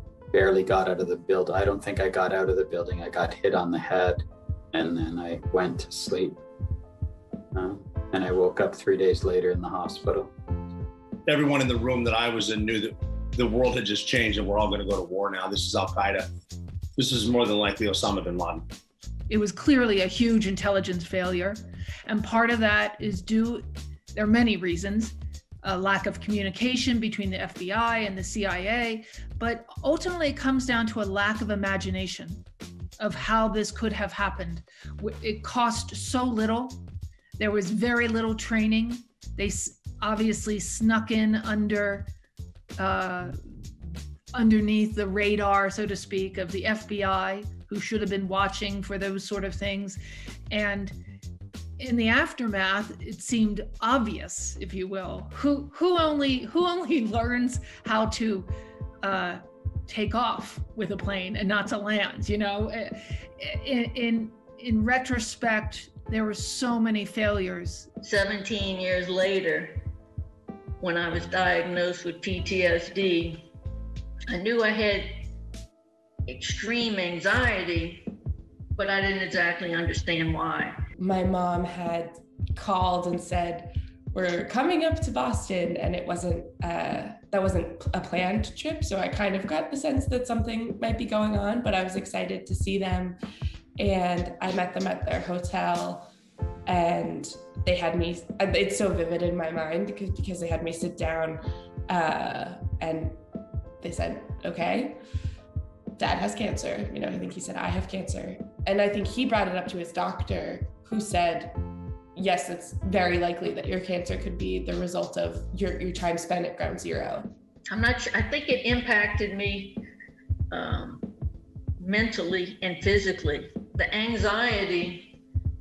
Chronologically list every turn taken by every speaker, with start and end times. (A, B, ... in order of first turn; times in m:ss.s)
0:00.3-0:06.4 A
0:07.5-0:10.3 A
0:11.3-0:16.3 B
0:17.0-0:18.6 B
0:19.3-0:32.4 C
0:33.0-0:36.8 C
0:37.4-0:42.1 C
0:42.8-0:43.4 C
0:44.3-0:51.0 C
0:51.8-0:58.5 C
0:59.0-1:07.9 C
1:08.0-1:09.8 D
1:10.8-1:13.5 D
1:14.3-1:15.1 D
1:16.3-1:18.0 D
1:18.8-1:20.8 D
1:21.0-1:33.2 E
1:33.8-1:36.1 E
1:36.7-1:43.2 E
1:43.8-1:45.0 E
1:46.0-1:51.6 E
1:52.2-1:57.3 E
1:57.7-1:59.8 D
2:00.5-2:01.0 D
2:01.8-2:05.1 D